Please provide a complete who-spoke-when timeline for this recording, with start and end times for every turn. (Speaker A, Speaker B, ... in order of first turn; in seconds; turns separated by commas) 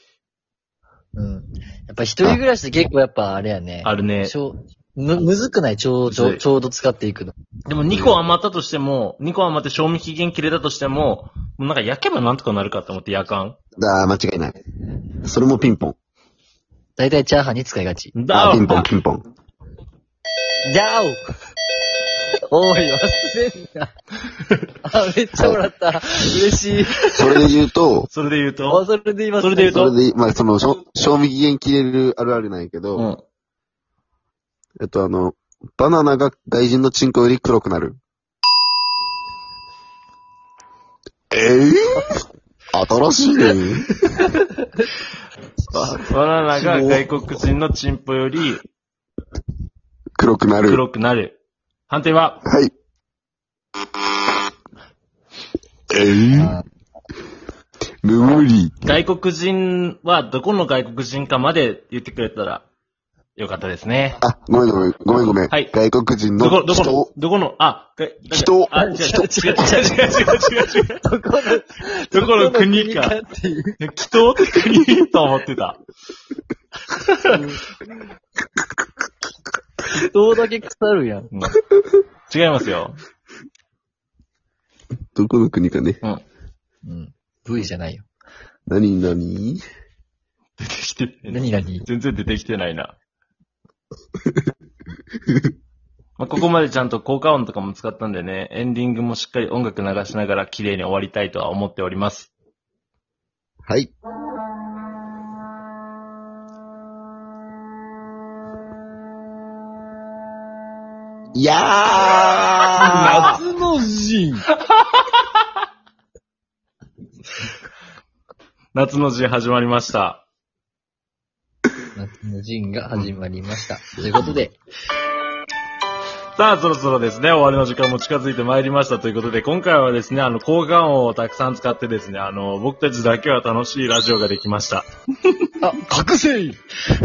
Speaker A: 1.1-7.3, Speaker B: 3.8-4.4, Speaker B: 6.1-6.4, Speaker B: 7.7-13.6, Speaker C: 7.9-8.2, Speaker C: 13.8-14.6, Speaker C: 15.2-16.0, Speaker A: 17.0-18.1, Speaker B: 18.1-18.9, Speaker C: 18.3-19.2, Speaker A: 20.7-21.2, Speaker A: 22.5-23.9, Speaker A: 24.9-27.0, Speaker C: 27.1-28.1, Speaker B: 28.1-28.8, Speaker A: 28.7-29.9, Speaker B: 29.4-29.9, Speaker C: 29.6-33.1, Speaker B: 33.0-33.2, Speaker C: 34.8-38.0, Speaker C: 41.3-42.2, Speaker C: 42.7-44.0, Speaker A: 44.4-44.9, Speaker B: 45.7-48.6, Speaker A: 46.5-47.1, Speaker C: 50.2-50.8, Speaker B: 50.6-51.4, Speaker B: 51.9-52.4, Speaker C: 52.5-52.7, Speaker C: 55.9-56.6, Speaker A: 56.3-56.7, Speaker C: 58.0-58.8, Speaker B: 58.8-62.6, Speaker B: 63.4-64.2, Speaker C: 64.2-67.1, Speaker B: 65.5-65.8, Speaker B: 66.4-71.0, Speaker C: 68.3-69.2, Speaker A: 68.7-73.8, Speaker B: 72.1-73.1, Speaker B: 73.8-75.8, Speaker B: 77.0-77.3, Speaker A: 77.2-77.7, Speaker A: 79.9-81.3, Speaker B: 81.3-81.6, Speaker B: 82.3-83.0, Speaker C: 85.1-86.0, Speaker A: 86.8-88.1, Speaker C: 88.7-89.6, Speaker B: 90.6-92.9, Speaker A: 91.3-91.9, Speaker B: 96.2-102.3, Speaker C: 103.7-103.9, Speaker C: 111.3-113.3, Speaker A: 112.8-114.5, Speaker B: 114.7-115.2, Speaker B: 118.7-120.2, Speaker A: 121.9-124.6, Speaker B: 126.4-134.9, Speaker A: 135.6-136.6